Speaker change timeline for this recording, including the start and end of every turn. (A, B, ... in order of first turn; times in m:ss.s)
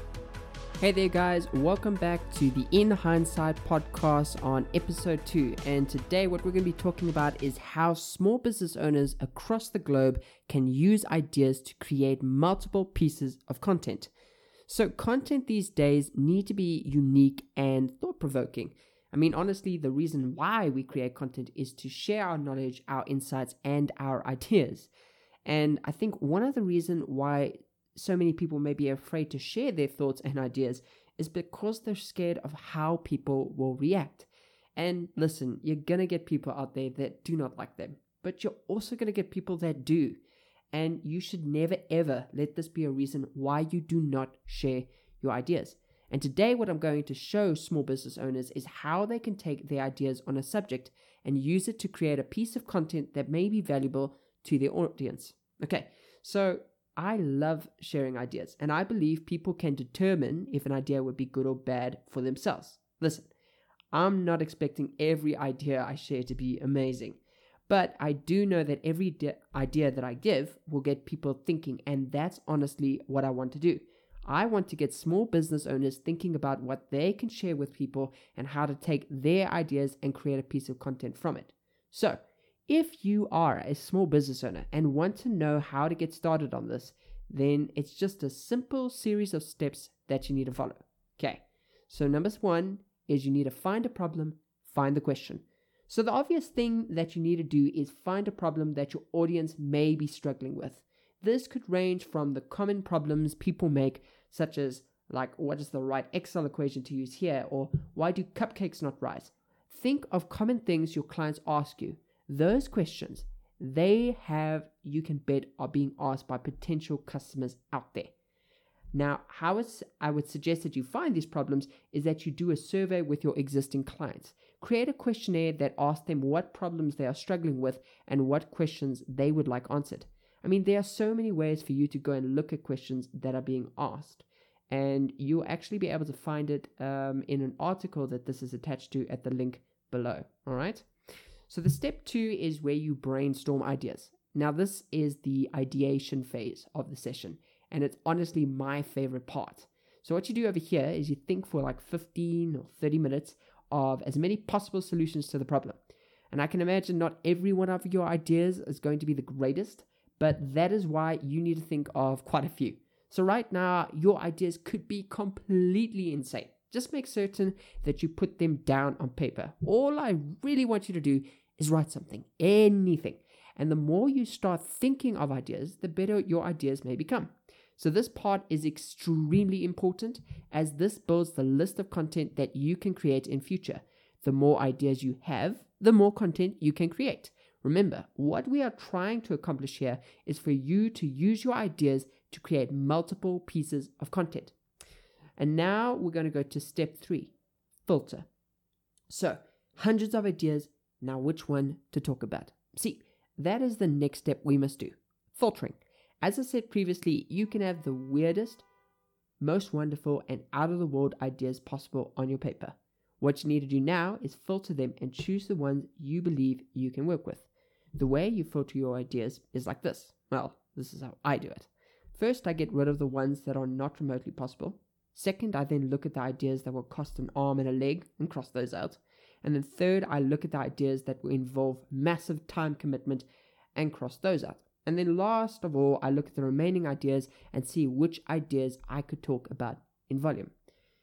0:00.8-0:14.1 A
0:14.7-0:24.9 A
0:25.4-0:40.2 A
0:40.7-1:03.3 A
1:03.9-1:58.1 A
1:58.9-2:20.9 A
2:21.5-2:35.8 A
2:36.3-3:14.5 A
3:15.4-3:17.3 A
3:17.8-3:18.3 A
3:19.1-3:28.6 A
3:29.4-4:00.5 A